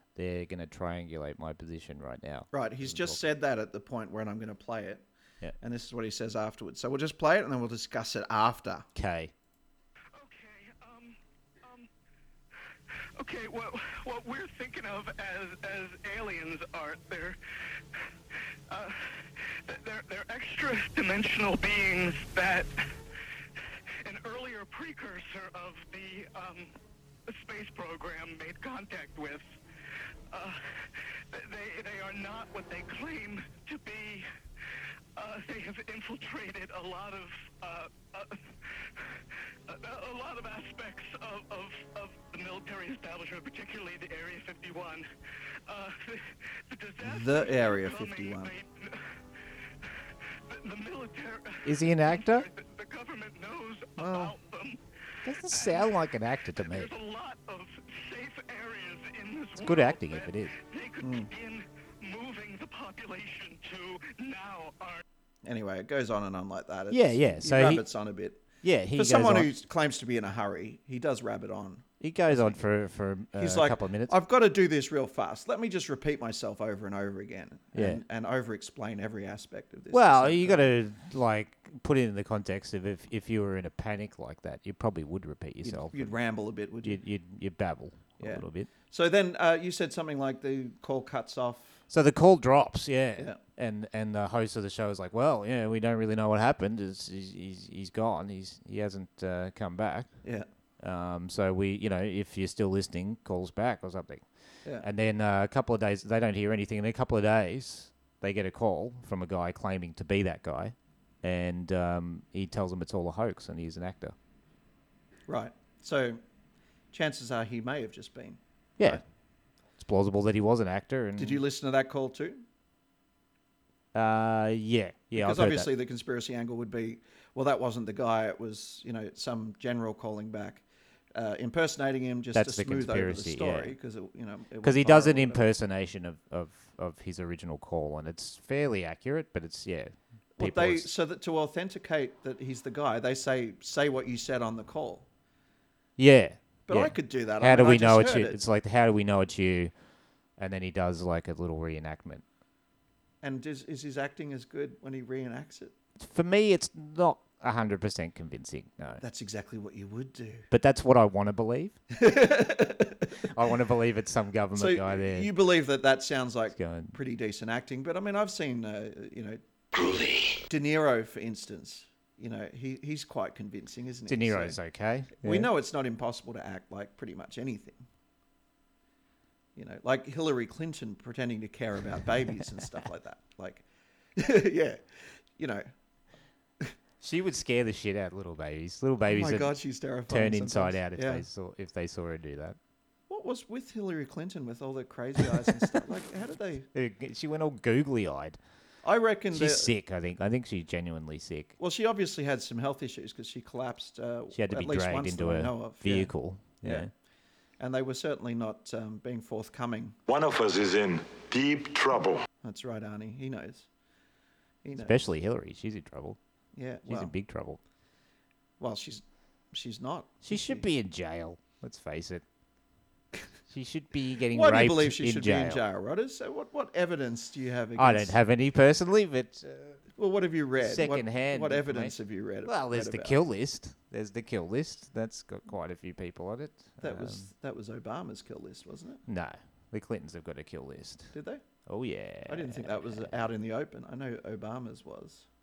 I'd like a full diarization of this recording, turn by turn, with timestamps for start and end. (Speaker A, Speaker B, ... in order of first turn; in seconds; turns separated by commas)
Speaker A: 0.1-3.2, Speaker B: 2.5-5.0, Speaker B: 5.6-8.8, Speaker A: 8.9-9.3, Speaker C: 10.1-11.9, Speaker C: 12.6-17.4, Speaker C: 18.7-22.8, Speaker C: 23.6-26.7, Speaker C: 27.3-29.4, Speaker C: 30.3-34.3, Speaker C: 35.1-45.1, Speaker C: 45.6-55.9, Speaker B: 47.0-48.5, Speaker A: 51.6-52.5, Speaker B: 54.0-54.3, Speaker A: 55.2-56.9, Speaker C: 56.6-65.0, Speaker A: 59.5-60.5, Speaker B: 61.0-61.3, Speaker B: 65.4-72.5, Speaker A: 66.9-67.8, Speaker A: 68.6-69.5, Speaker A: 72.0-74.1, Speaker B: 73.3-80.7, Speaker A: 77.7-78.0, Speaker A: 79.9-86.1, Speaker B: 85.6-87.0, Speaker A: 86.8-88.7, Speaker B: 88.2-91.8, Speaker A: 91.9-100.1, Speaker A: 100.8-104.2, Speaker A: 104.8-114.1, Speaker B: 115.3-116.2, Speaker B: 116.9-119.0, Speaker A: 119.8-121.4, Speaker B: 121.2-122.4, Speaker A: 123.9-125.7, Speaker B: 125.1-130.6, Speaker B: 131.1-135.4, Speaker A: 132.3-133.7, Speaker A: 134.6-140.9, Speaker B: 140.4-145.1, Speaker A: 146.0-149.7, Speaker B: 146.7-148.4, Speaker A: 150.4-152.2, Speaker B: 153.2-155.7, Speaker A: 156.0-159.0, Speaker B: 159.0-160.5, Speaker A: 160.5-161.8, Speaker B: 161.9-163.3, Speaker A: 163.2-165.3, Speaker B: 164.5-169.4, Speaker A: 166.5-166.9, Speaker B: 170.4-174.6, Speaker A: 174.1-175.5, Speaker B: 175.2-177.8, Speaker B: 179.6-183.6, Speaker B: 184.2-184.8, Speaker B: 185.4-185.7, Speaker A: 187.0-189.5, Speaker B: 189.1-191.2, Speaker A: 190.1-192.6, Speaker B: 193.1-196.7, Speaker A: 195.2-195.8, Speaker A: 196.7-198.4, Speaker B: 198.8-199.7, Speaker A: 199.3-201.5, Speaker B: 201.6-206.9, Speaker A: 204.3-206.9, Speaker B: 207.6-210.0, Speaker D: 210.1-212.2, Speaker B: 212.4-213.7, Speaker B: 214.6-214.9, Speaker A: 214.8-216.2, Speaker B: 216.5-217.1, Speaker A: 216.8-217.6, Speaker B: 218.6-220.7, Speaker A: 220.2-222.2, Speaker A: 223.5-225.6, Speaker B: 224.3-228.2, Speaker A: 227.8-229.8, Speaker B: 229.9-233.2, Speaker A: 230.6-237.3, Speaker B: 236.8-239.0, Speaker A: 239.1-241.1, Speaker B: 241.1-241.4, Speaker A: 241.7-243.1, Speaker B: 242.2-245.2